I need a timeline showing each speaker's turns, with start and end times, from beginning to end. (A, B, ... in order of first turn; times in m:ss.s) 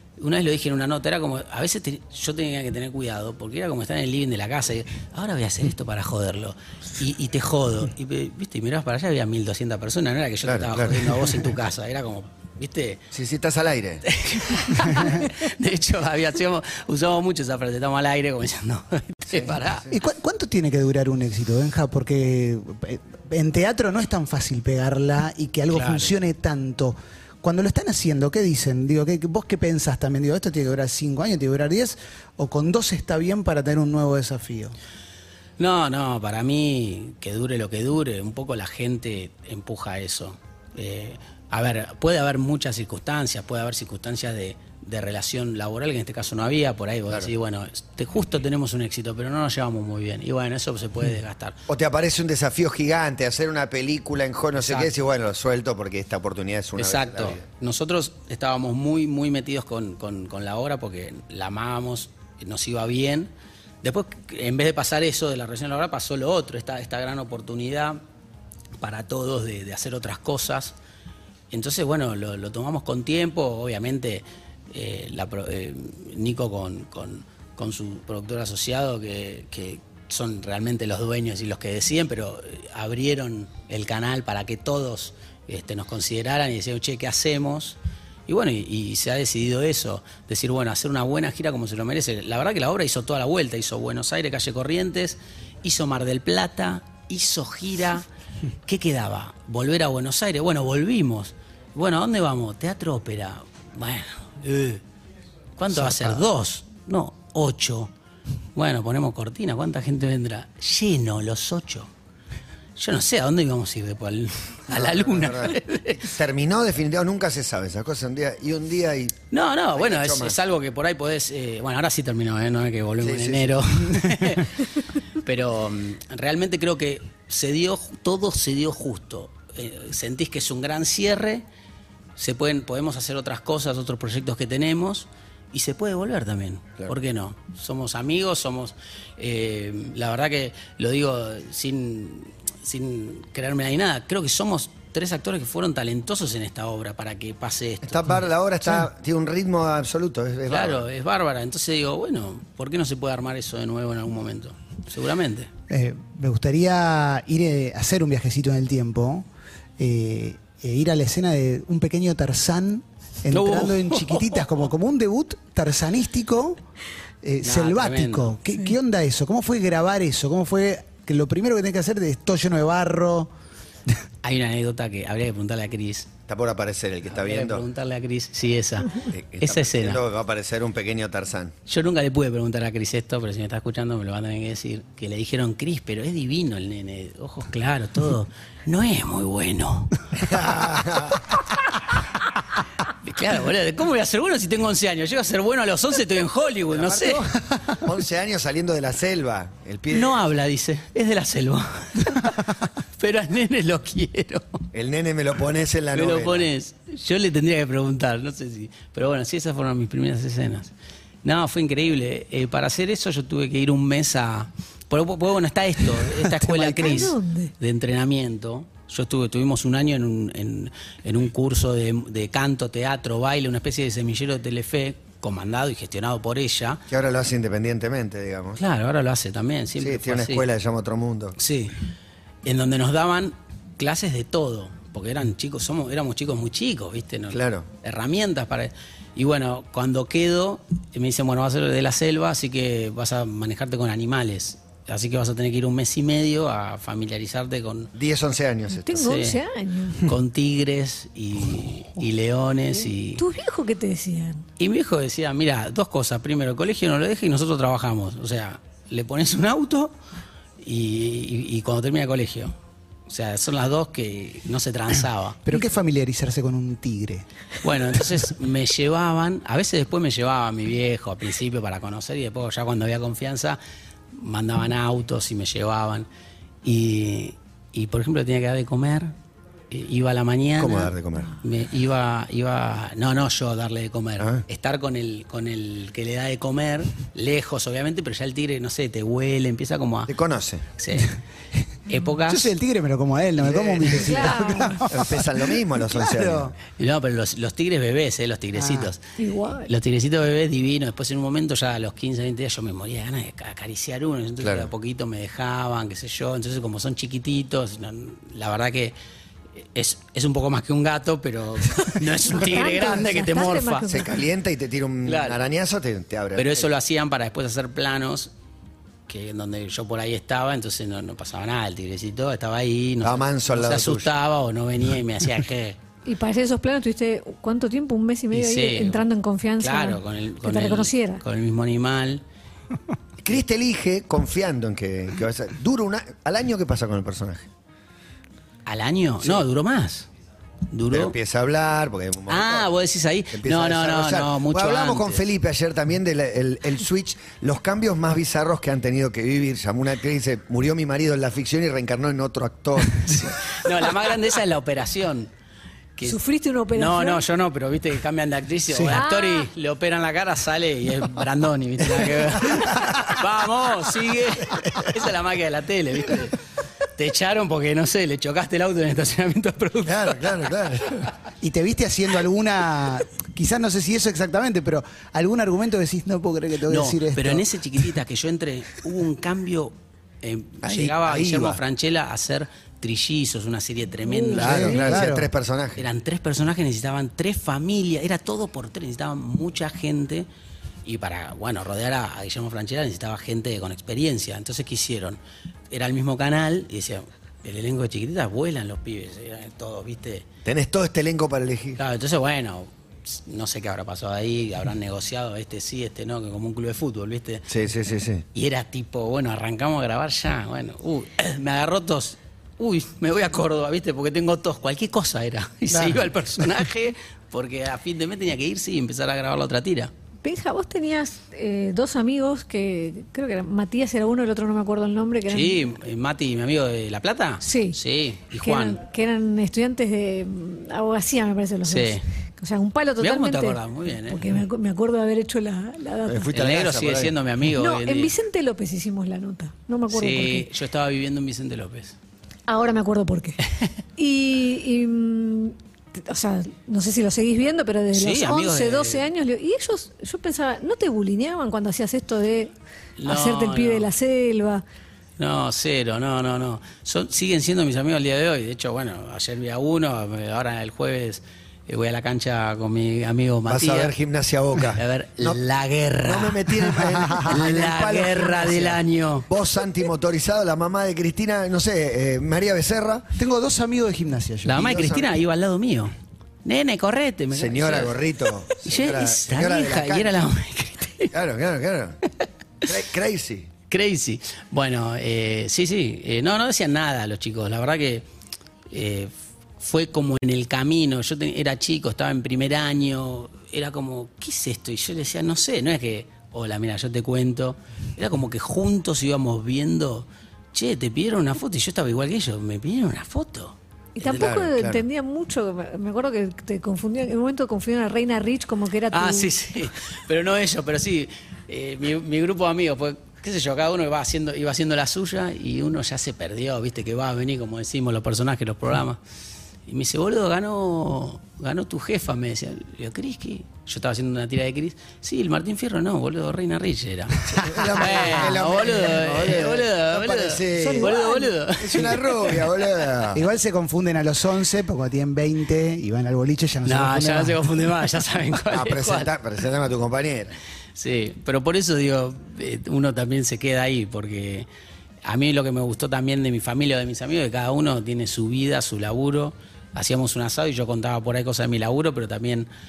0:00.2-0:13.0 A
0:10.4-0:11.4 B
0:13.1-0:14.0 B
0:14.0-0:19.9 A
0:14.8-0:15.1 C
0:19.3-0:19.8 B
0:19.9-0:34.7 C
0:25.7-0:26.1 A
0:35.6-0:51.6 A
0:51.7-0:57.4 B
0:54.6-0:54.9 A
0:56.8-1:03.3 A
1:03.8-1:08.0 A
1:08.8-1:10.7 A
1:11.5-1:38.0 A
1:38.6-1:44.8 A
1:45.6-1:47.9 A
1:48.5-1:51.9 A
1:52.8-1:56.1 A
1:54.7-2:00.4 B
1:59.3-2:11.4 A
2:03.0-2:04.0 B
2:12.2-2:28.3 A
2:27.8-2:30.8 B
2:30.4-2:35.5 A
2:35.7-2:39.2 C
2:39.8-2:46.6 C
2:43.3-2:44.4 A
2:47.2-2:53.3 C
2:47.4-2:48.4 A
2:54.2-2:56.1 A
2:56.3-2:57.6 B
2:57.1-3:00.0 A
2:59.0-3:01.5 B
3:01.6-3:10.0 A
3:10.2-3:11.2 B
3:12.9-3:17.2 A
3:16.7-3:20.2 B
3:19.9-3:24.6 A
3:24.7-3:26.5 B
3:25.9-3:30.7 A
3:31.2-3:46.8 A
3:36.5-3:37.5 D
3:46.9-3:48.6 B
3:48.6-3:50.5 A
3:49.8-3:51.4 B
3:51.4-3:51.7 A
3:52.4-4:07.9 A
3:57.3-3:57.6 B
4:07.9-4:09.2 B
4:08.8-4:10.1 D
4:08.9-4:09.4 A
4:10.0-4:13.2 A
4:13.2-4:14.4 D
4:14.6-4:19.9 A
4:20.6-4:22.5 A
4:23.1-4:25.4 A
4:25.4-4:27.2 C
4:27.6-4:33.6 A
4:34.1-4:36.1 A
4:36.6-4:39.1 A
4:39.7-4:50.1 A
4:40.6-4:41.4 B
4:50.1-4:50.6 B
4:50.8-4:51.2 A
4:51.8-4:52.5 A
4:52.2-4:56.5 C
4:53.4-4:56.5 B
4:53.9-4:54.8 D
4:56.8-4:59.0 A
4:58.5-4:58.9 C
4:59.2-4:59.7 D
4:59.6-5:08.9 A
5:04.4-5:04.7 B
5:09.6-5:13.9 A
5:12.2-5:14.2 D
5:13.9-5:16.7 B
5:15.0-5:15.4 A
5:16.3-5:18.3 A
5:19.1-5:25.8 A
5:23.0-5:24.1 B
5:26.0-5:31.2 D
5:28.3-5:29.0 A
5:29.6-5:32.2 A
5:33.2-5:37.5 B
5:38.6-5:40.1 A
5:40.7-5:41.2 A
5:40.9-5:42.7 B
5:42.3-5:45.2 A
5:43.3-5:53.4 B
5:53.0-5:55.3 A
5:56.0-5:57.2 D
5:56.7-6:06.4 A
5:58.7-5:59.0 C
5:58.9-5:59.5 D
6:04.5-6:04.9 B
6:07.0-6:10.5 A
6:09.8-6:11.1 B
6:11.4-6:17.4 C
6:16.7-6:25.0 A
6:20.6-6:21.6 B
6:24.2-6:24.8 D
6:24.2-6:25.3 C
6:24.3-6:25.8 B
6:25.8-6:30.3 A
6:30.8-6:35.2 A
6:35.7-6:40.2 A
6:40.4-6:41.8 B
6:41.8-6:47.5 A
6:47.5-6:48.2 B
6:48.3-6:59.9 A
6:55.7-6:56.1 C
7:00.2-7:05.8 D
7:05.3-7:08.8 A
7:07.4-7:07.8 D
7:08.4-7:16.4 D
7:11.6-7:12.0 A
7:13.0-7:14.3 A
7:16.0-7:17.1 B
7:16.3-7:18.1 A
7:17.6-7:20.5 D
7:19.9-7:22.0 A
7:22.5-7:23.4 D
7:24.0-7:32.5 D
7:27.9-7:29.0 A
7:33.0-7:33.9 A
7:33.0-7:34.6 D
7:35.2-7:43.9 A
7:43.5-7:45.4 B
7:44.7-7:49.3 A
7:46.0-7:53.1 B
7:53.2-7:54.6 C
7:54.4-7:55.9 A
7:54.5-7:55.2 B
7:56.4-8:01.1 A
7:57.3-8:00.3 B
8:01.1-8:02.0 B
8:02.6-8:03.5 B
8:03.7-8:08.0 A
8:08.7-8:24.3 A
8:24.0-8:29.3 D
8:24.0-8:24.8 B
8:28.9-8:39.0 A
8:39.7-8:52.7 A
8:47.3-8:51.0 B
8:47.3-8:49.4 C
8:50.6-8:51.1 C
8:51.6-8:53.2 B
8:53.1-8:57.4 C
8:56.6-8:59.1 A
8:58.5-9:00.3 B
9:00.8-9:04.5 A
9:05.0-9:12.5 A